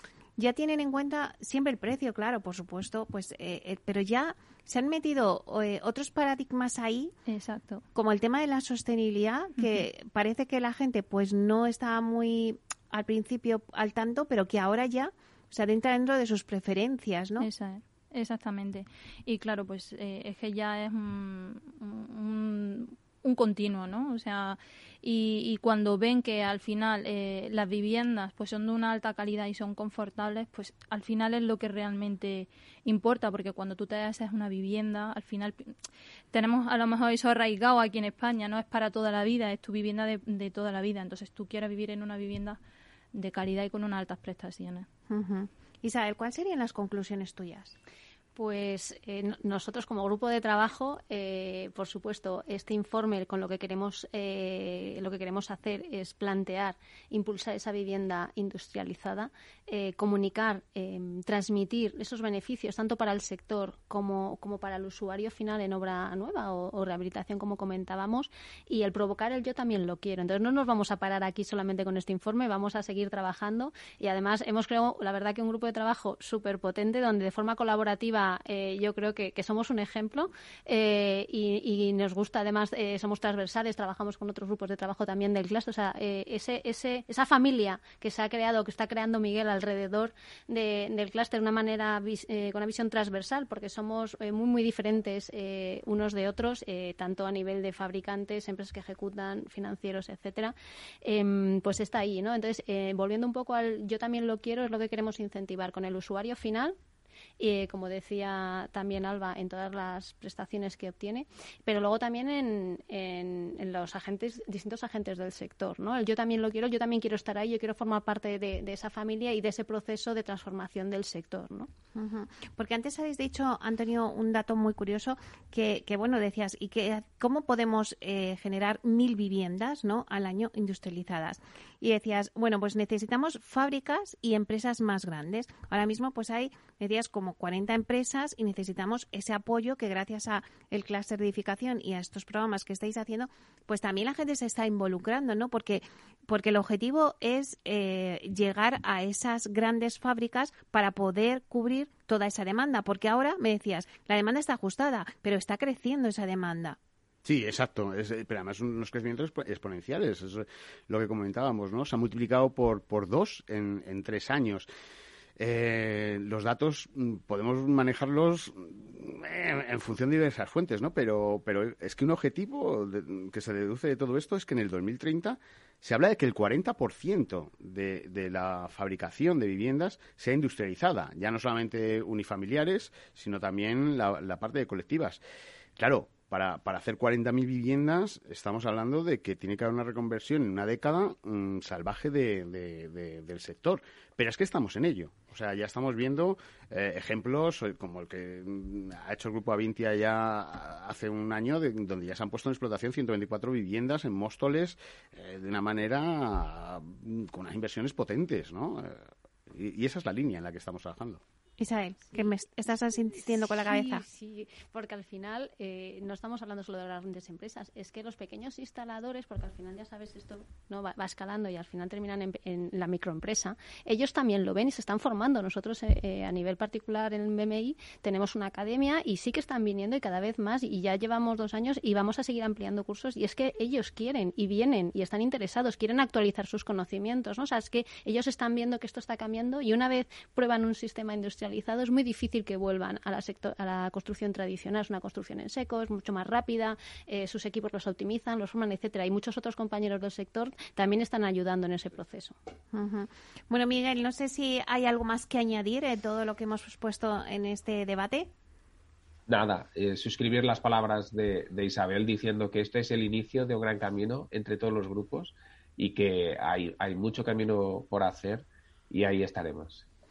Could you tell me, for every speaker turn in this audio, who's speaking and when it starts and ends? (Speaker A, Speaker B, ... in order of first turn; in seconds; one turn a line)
Speaker A: 0.4-7.1
Speaker B: 7.3-7.8
Speaker A: 7.9-17.5
Speaker B: 9.6-9.8
Speaker B: 17.4-35.7
Speaker B: 36.3-42.6
Speaker B: 43.1-44.9
Speaker A: 45.1-47.7
Speaker C: 48.4-106.7
Speaker C: 107.4-121.7
Speaker A: 121.9-156.8
Speaker D: 157.2-164.7
Speaker D: 165.4-185.2
Speaker D: 185.8-211.2
Speaker A: 211.6-214.0
Speaker C: 213.5-252.3
Speaker A: 252.7-258.3
Speaker E: 259.3-269.9